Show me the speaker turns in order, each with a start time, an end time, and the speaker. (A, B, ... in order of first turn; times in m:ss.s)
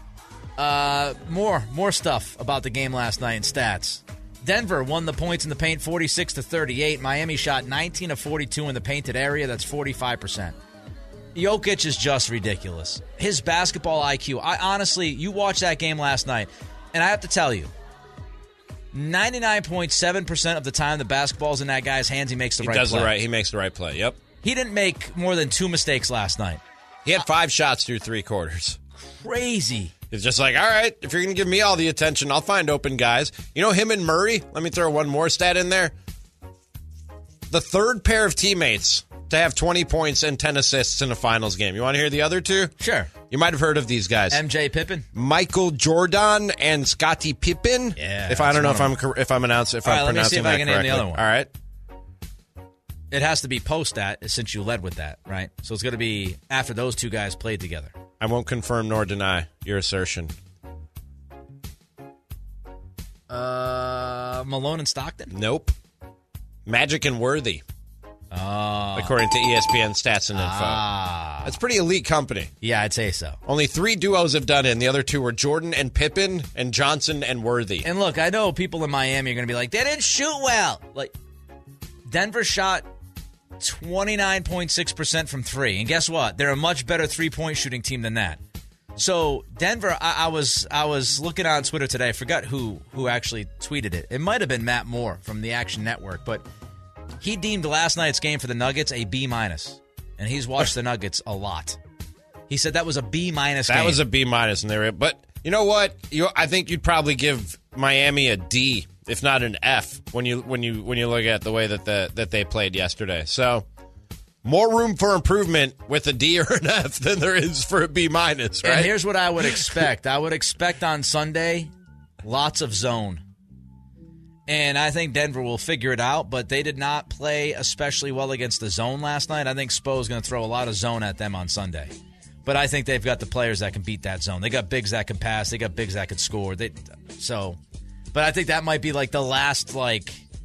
0:00.6-0:10.6 A
0:11.3-0:17.7 A
0:18.9-0:23.1 A
0:22.6-0:24.2 B
0:24.4-0:26.6 A
0:27.0-0:28.8 B
0:29.0-0:29.9 A
0:30.1-0:35.9 B
0:37.5-0:42.7 B
0:42.8-0:43.1 A
0:43.3-0:44.4 B
0:44.3-0:45.1 A
0:45.1-0:51.5 B
0:48.0-0:48.9 A
0:49.8-0:51.2 A
0:53.1-0:57.9 A
0:58.2-1:00.3 B
1:03.3-1:05.3 A
1:05.3-1:05.7 B
1:06.6-1:07.6 B
1:08.3-1:09.1 A
1:09.0-1:10.8 B
1:10.3-1:11.6 A
1:11.4-1:12.5 B
1:12.6-1:13.4 A
1:13.4-1:17.9 B
1:17.8-1:21.1 A
1:22.1-1:22.9 A
1:23.6-1:28.4 A
1:29.0-1:36.4 A
1:37.2-1:41.8 A
1:42.5-1:44.0 A
1:43.7-1:53.6 B
1:54.4-1:59.9 B
1:58.6-2:01.7 A
2:02.2-2:03.2 A
2:04.5-2:11.9 A
2:12.4-2:17.6 A
2:18.1-2:20.2 A